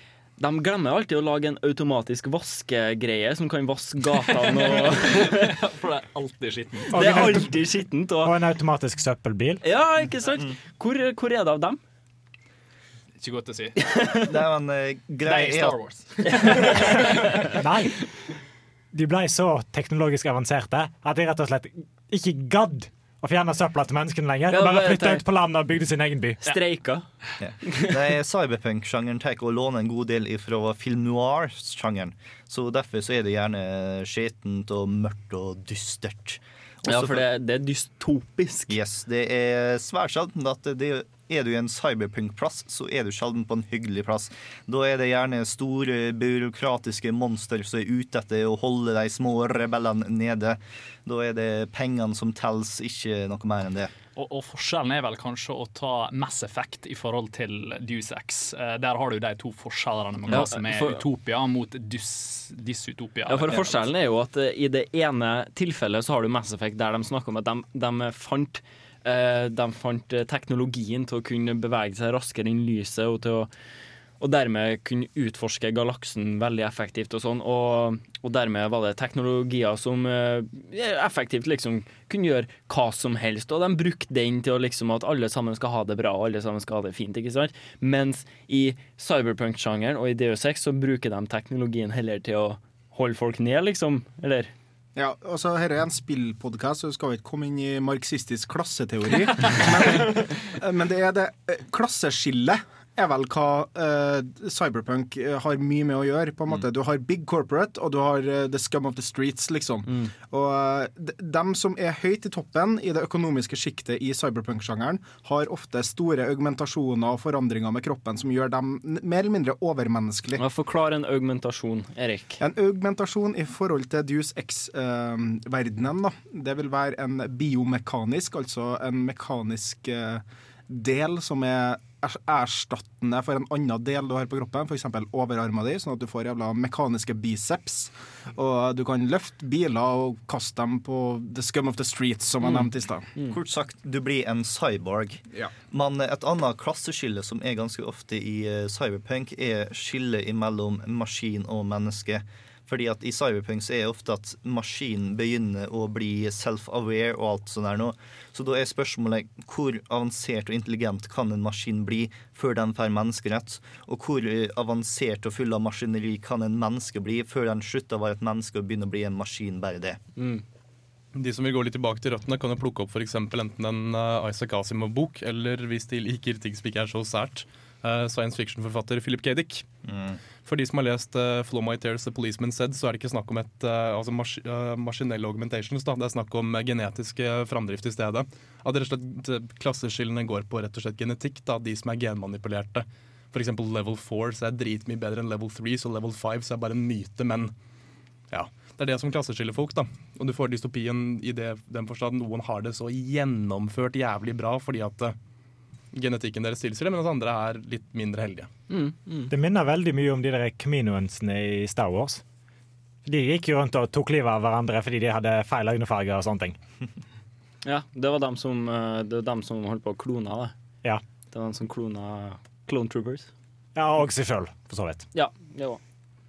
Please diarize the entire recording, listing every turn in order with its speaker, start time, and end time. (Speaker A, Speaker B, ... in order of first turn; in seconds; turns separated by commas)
Speaker A: 0.4-5.6, Speaker B: 4.2-7.3, Speaker C: 6.9-7.7, Speaker A: 6.9-8.4, Speaker C: 8.2-9.6, Speaker A: 9.6-11.8, Speaker B: 13.2-13.8, Speaker A: 13.8-14.3, Speaker D: 14.3-15.8, Speaker B: 15.2-17.4, Speaker A: 16.3-16.8, Speaker C: 17.6-17.9, Speaker C: 18.9-26.4, Speaker A: 24.5-25.2, Speaker A: 26.4-27.1, Speaker D: 27.4-37.2, Speaker A: 27.7-27.9, Speaker A: 36.9-38.8, Speaker D: 38.7-53.9, Speaker B: 54.2-63.9, Speaker A: 60.3-61.0, Speaker A: 63.3-73.5, Speaker A: 74.2-94.5, Speaker E: 95.0-120.4, Speaker A: 120.4-122.4, Speaker E: 122.4-143.1, Speaker A: 142.4-143.4, Speaker D: 143.3-170.0, Speaker A: 170.2-170.4, Speaker F: 171.2-179.7, Speaker D: 179.9-180.2, Speaker F: 180.4-197.5, Speaker F: 198.3-205.2, Speaker F: 205.9-208.5, Speaker A: 208.7-209.3, Speaker C: 209.3-212.2, Speaker C: 213.1-216.6, Speaker A: 217.7-220.5, Speaker A: 221.3-223.3, Speaker C: 223.8-225.1, Speaker A: 225.1-225.8